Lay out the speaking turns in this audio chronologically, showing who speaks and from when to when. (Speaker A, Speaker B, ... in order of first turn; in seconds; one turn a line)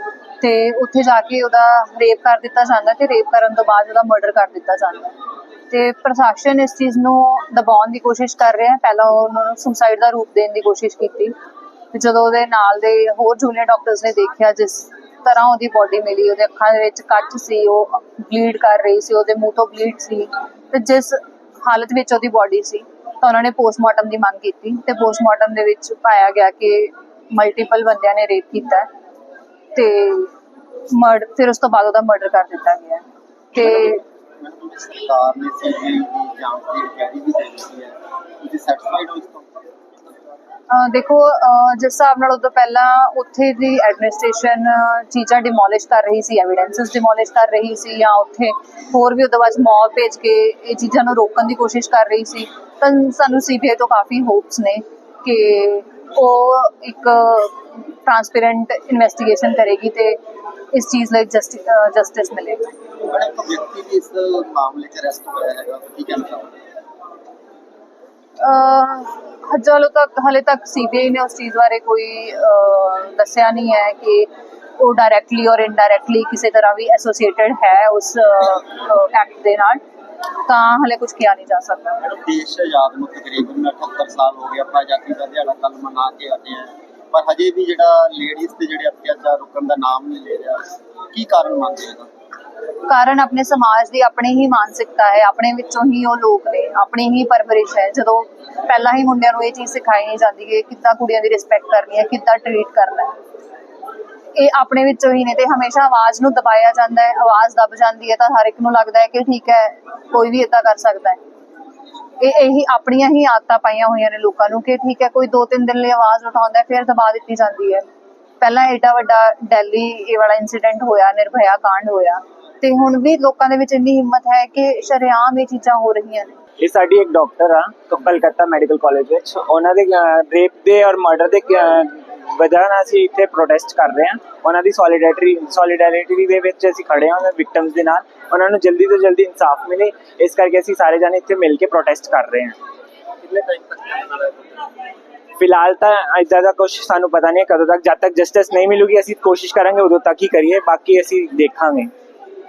Speaker A: 0.4-5.1
Speaker A: 5.7-11.3
Speaker A: 11.9-28.9
Speaker A: 29.7-30.3
Speaker A: 30.9-33.0
Speaker A: 33.5-34.0
Speaker B: 33.6-40.3
Speaker A: 40.7-60.2
Speaker A: 60.7-62.7
Speaker B: 63.1-66.5
Speaker A: 68.4-79.8
Speaker A: 80.4-82.0
Speaker B: 82.0-92.1
Speaker A: 92.9-103.2
Speaker A: 104.3-111.2
Speaker A: 112.2-117.8
Speaker A: 118.4-126.4
Speaker C: 126.6-142.6
Speaker B: 143.3-144.3
Speaker C: 145.4-151.9